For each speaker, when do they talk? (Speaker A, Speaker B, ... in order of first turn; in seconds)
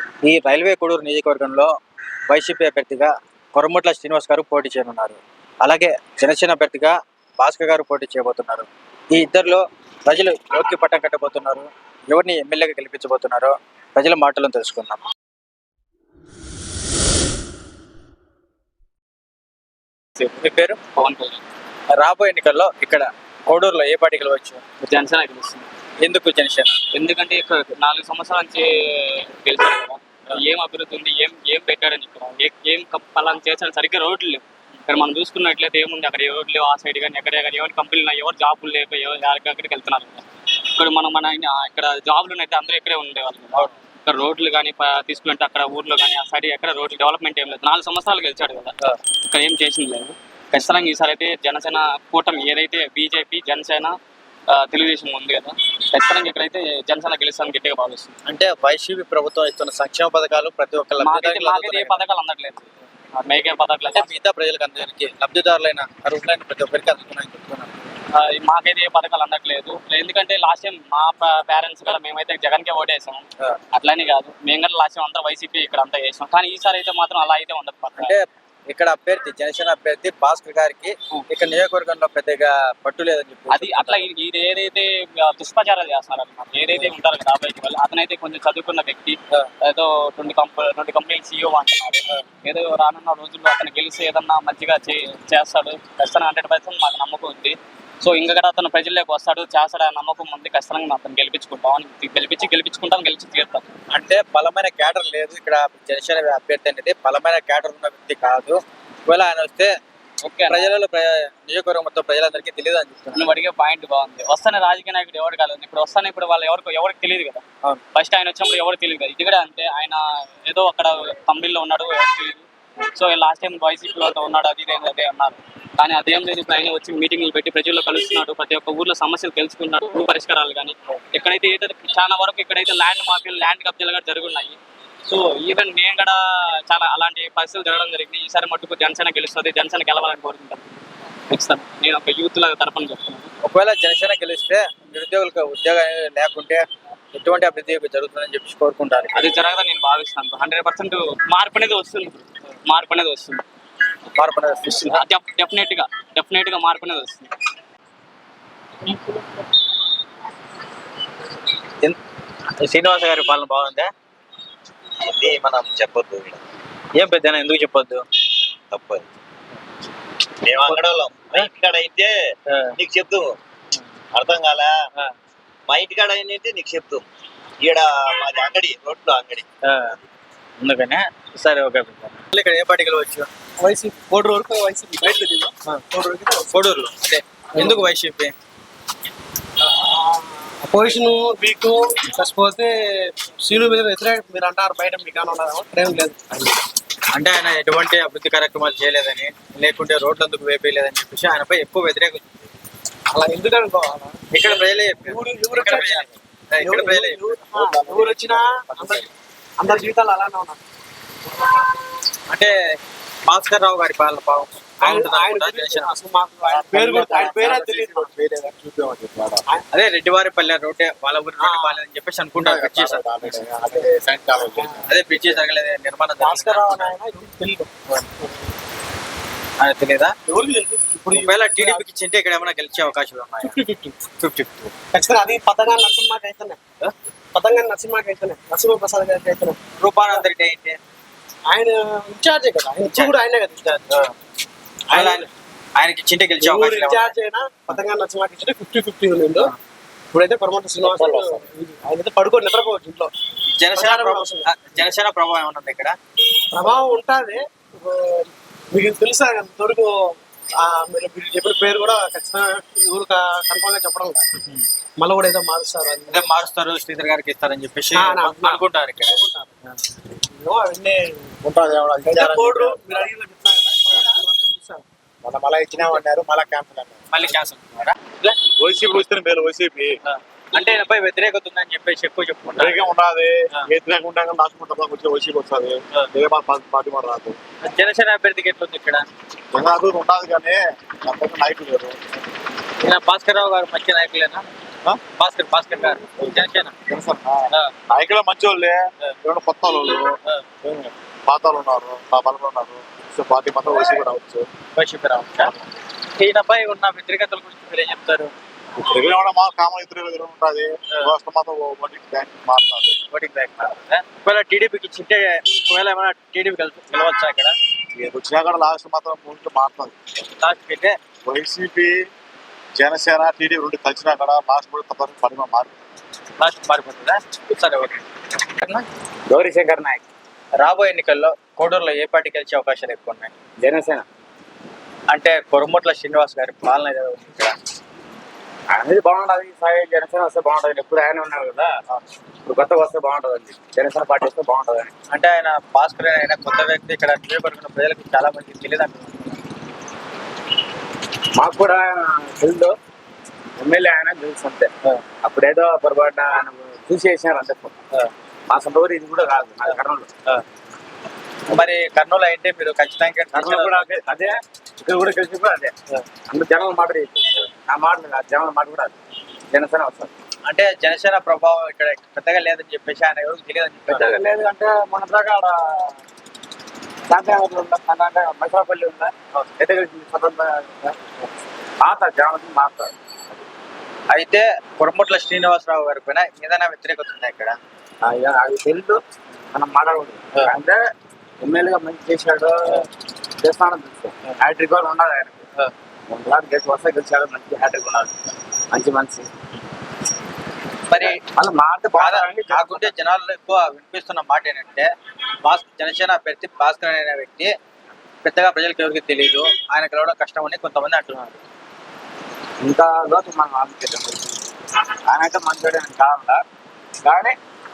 Speaker A: 0.2-1.7, 2.3-15.0, 20.4-20.8, 21.9-24.6, 26.0-26.8, 58.3-62.0, 63.9-67.8, 78.0-84.1, 103.9-109.7, 110.5-113.3, 143.4-149.3, 154.1-155.0, 162.6-163.9, 166.9-168.0, 179.7-180.0, 180.6-183.3, 186.5-188.3, 197.2-202.4, 204.3-207.3, 212.3-212.6, 213.3-216.0, 219.7-223.4, 224.9-226.9, 229.6-230.2, 231.1-233.6, 234.2-234.7, 239.8-240.8, 242.8-243.2, 244.9-247.2, 250.9-251.4, 253.6-255.9, 266.1-269.2, 277.1-278.4, 280.1-282.9, 287.6-289.1, 292.8-294.4, 295.0-296.7, 304.8-305.6, 306.2-308.3, 313.1-317.6, 320.4-321.0, 326.4-328.0, 328.6-328.9, 330.6-333.3, 335.1-337.6, 345.1-349.4, 361.5-363.9, 370.5-374.2, 384.1-387.6, 400.9-401.2, 402.0-404.9, 405.4-407.5, 408.2-411.4
Speaker B: 20.2-21.4, 24.8-25.7, 26.9-48.7, 49.3-54.0, 54.5-58.1, 61.0-64.1, 68.1-78.1, 83.5-103.7, 110.2-110.6, 113.2-143.3, 149.1-153.4, 154.7-157.3
Speaker C: 165.1-166.4, 168.7-169.1, 170.4-172.1, 172.8-173.3, 174.2-174.7, 175.7-177.1, 177.6-179.4
Speaker D: 183.6-186.5, 189.6-196.6, 203.1-210.6, 214.8-218.2, 221.4-221.8, 223.5-223.9, 224.5-224.9, 226.2-228.3, 230.3-231.8, 233.4-233.9, 234.9-236.6, 237.3-239.6, 241.5-243.9, 244.9-245.3, 246.4-249.5, 250.1-253.1, 253.7-254.5, 256.5-264.2, 265.0-266.2, 267.9-269.6, 270.2-271.4, 272.0-274.8, 275.4-276.9
Speaker E: 207.5-209.0, 216.5-219.4, 222.4-224.9, 271.4-273.0, 278.6-280.0, 282.6-287.4, 289.5-292.0, 296.2-300.2, 300.7-304.5, 308.8-313.0, 317.9-319.9, 321.2-322.1, 322.8-325.7
Speaker F: 329.3-330.0, 333.6-334.1, 338.7-341.8, 342.4-344.9, 351.4-352.8, 353.6-354.7, 355.2-357.8, 358.5-360.1, 363.3-365.7, 366.3-368.9, 369.5-370.1, 373.9-376.0, 377.1-381.2, 381.8-383.4, 388.0-389.0, 389.5-390.8, 391.4-392.9, 393.4-395.5, 396.1-398.1, 398.7-399.3, 401.0-402.9, 412.6-414.4, 415.1-416.4, 417.0-417.4